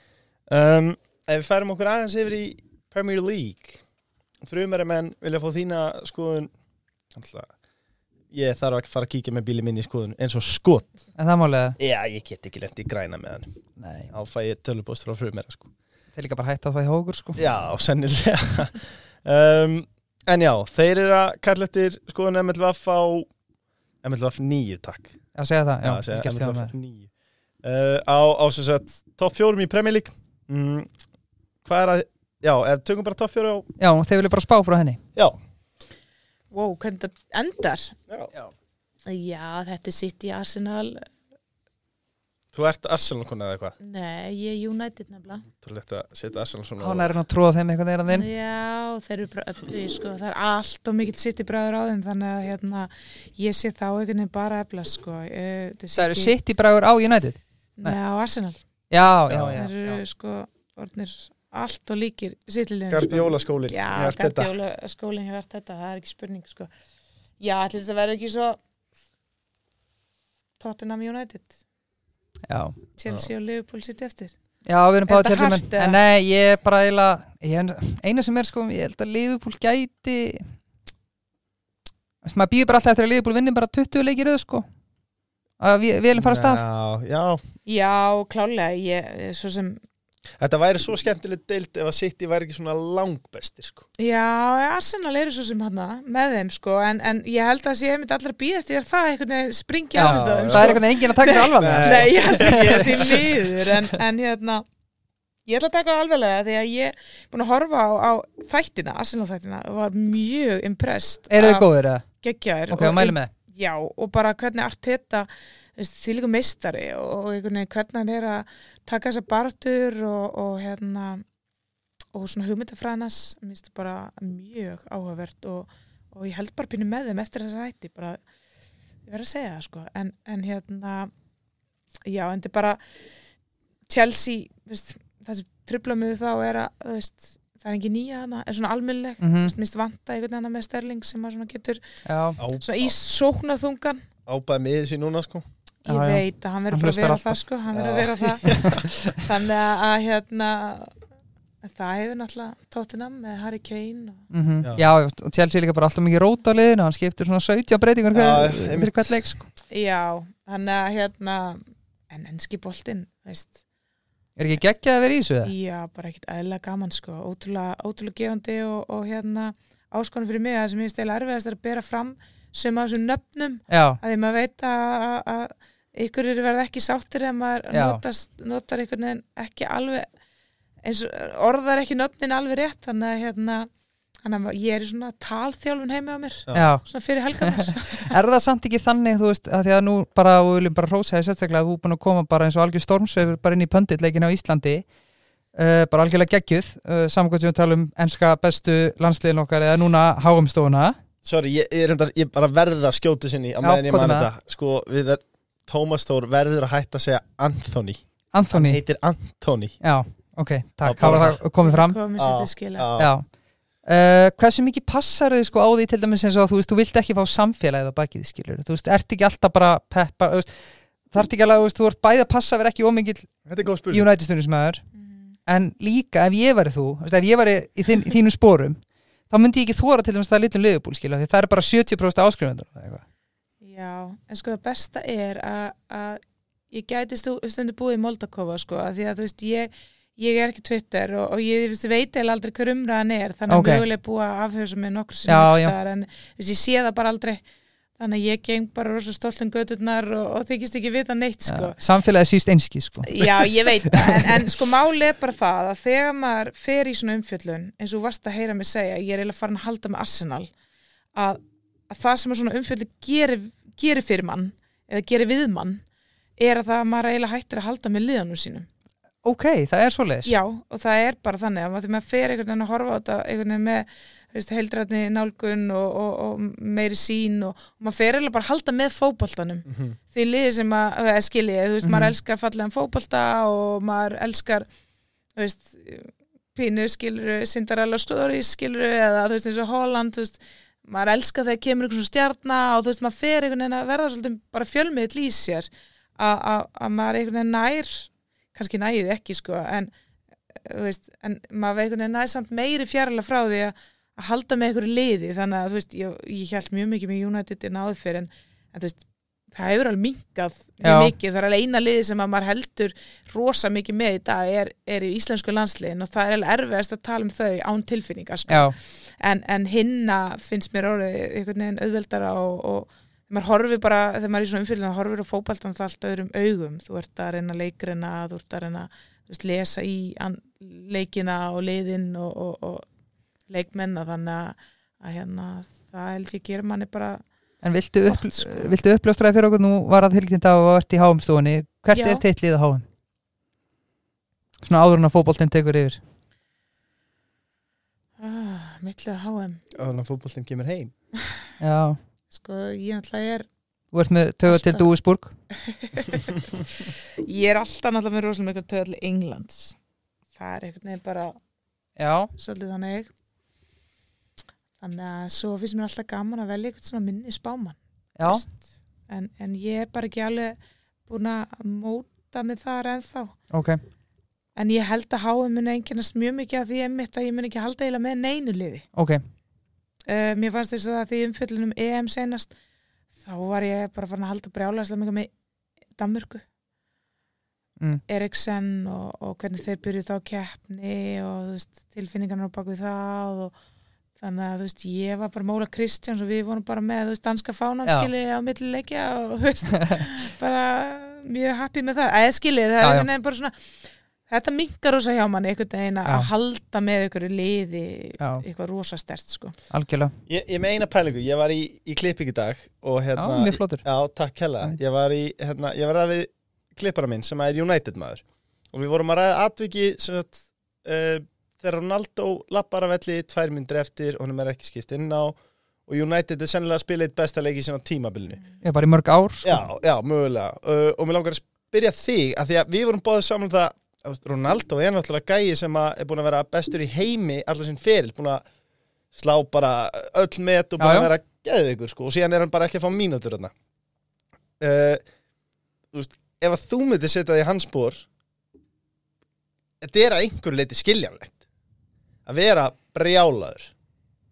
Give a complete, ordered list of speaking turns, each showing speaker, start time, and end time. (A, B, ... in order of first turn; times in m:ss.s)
0:00.5-0:03.8 A
0:04.4-0:06.5 A
0:07.1-0:07.5 A
0:08.3-0:11.0 A
0:11.2-0:11.8 B
0:11.8-0:13.6 A
0:13.8-0:14.1 B
0:14.1-0:15.7 A
0:16.1-0:17.4 B
0:17.4-0:23.3 A
0:24.0-0:25.2 A
0:25.4-0:26.7 B
0:25.8-0:27.1 A
0:27.6-0:30.9 A
0:31.6-0:33.7 A
0:33.8-0:35.0 B
0:36.5-0:38.0 C
0:39.1-0:41.1 C
0:42.5-0:43.8 A
0:43.8-0:45.5 C
0:45.6-0:47.1 A
0:46.8-0:48.3 B
0:48.1-0:56.4 C
0:55.9-0:58.0 B
0:57.8-0:58.6 C
0:58.9-1:00.0 B
0:59.3-0:59.6 A
0:59.5-1:06.7 C
1:02.9-1:04.5 A
1:07.4-1:08.6 C
1:10.6-1:11.6 C
1:12.5-1:12.8 B
1:13.0-1:14.4 C
1:14.6-1:20.6 B
1:15.1-1:16.0 C
1:22.2-1:24.7 B
1:25.6-1:26.6 B
1:26.2-1:27.4 A
1:27.7-1:29.8 C
1:30.4-1:33.9 A
1:34.0-1:44.7 C
1:40.0-1:42.9 B
1:40.0-1:40.8 A
1:41.6-1:43.4 A
1:45.5-2:01.2 C
1:51.3-1:52.1 B
1:52.7-1:53.3 B
2:02.1-2:08.2 C
2:09.0-2:11.1 C
2:12.1-2:12.8 C
2:13.9-2:21.8 C
2:19.2-2:19.5 B
2:22.1-2:22.4 B
2:22.4-2:22.9 A
2:22.4-2:24.1 C
2:24.3-2:25.4 A
2:25.8-2:31.0 C
2:25.9-2:27.4 B
2:27.7-2:28.8 A
2:28.6-2:28.9 B
2:31.6-2:34.3 C
2:34.3-2:39.5 B
2:38.1-2:39.2 A
2:39.7-2:43.6 C
2:44.4-2:45.5 B
2:45.4-3:00.1 C
2:53.7-2:54.0 B
2:57.7-2:58.0 B
3:00.8-3:03.7 C
3:04.2-3:08.1 C
3:06.5-3:14.9 B
3:15.5-3:21.0 B
3:21.2-3:29.8 A
3:23.6-3:24.3 B
3:28.3-3:28.8 B
3:29.8-3:32.0 B
3:30.8-3:31.4 A
3:31.1-3:32.9 C
3:32.2-3:33.1 A
3:33.0-3:33.3 B
3:33.8-3:44.8 B
3:43.5-3:44.1 A
3:45.0-3:45.4 C
3:45.5-3:53.0 B
3:53.6-4:07.4 C
4:03.5-4:03.8 B
4:05.3-4:05.7 B
4:08.0-4:11.8 C
4:11.5-4:14.3 B
4:13.1-4:20.5 C
4:21.1-4:25.8 C
4:26.4-4:28.7 C
4:29.2-4:30.3 B
4:30.2-4:44.7 C
4:39.7-4:40.0 A
4:41.8-4:42.1 B
4:45.4-4:59.9 C
5:00.5-5:32.9 C
5:10.8-5:11.1 B
5:18.5-5:18.8 B
5:33.5-5:37.2 C
5:37.6-5:42.8 B
5:38.1-5:38.7 C
5:41.9-5:42.2 C
5:44.6-5:46.0 B
5:48.2-5:49.6 C
5:49.7-5:50.9 A
5:51.6-5:52.0 B
5:52.3-5:53.5 C
5:53.9-5:55.4 B
5:54.5-5:54.9 C
5:55.5-5:59.8 C
6:00.4-6:01.4 C
6:02.0-6:02.3 B
6:02.4-6:03.1 C
6:04.8-6:13.4 C
6:08.2-6:08.4 B
6:13.5-6:13.8 B
6:14.6-6:18.9 C
6:18.9-6:19.2 B
6:20.1-6:22.5 C
6:23.2-6:25.3 C
6:26.0-6:26.4 C
6:28.1-6:33.6 C
6:34.2-6:49.6 C
6:37.8-6:38.1 B
6:42.8-6:43.1 B
6:48.2-6:48.4 B
6:49.7-6:50.2 B
6:50.3-7:08.5 A
6:53.2-6:53.9 B
7:08.6-7:09.7 B
7:09.4-7:18.4 A
7:19.1-7:23.5 A
7:20.8-7:21.1 B
7:24.6-7:25.1 A
7:25.9-7:28.1 A
7:29.8-7:31.4 A
7:32.3-7:33.7 A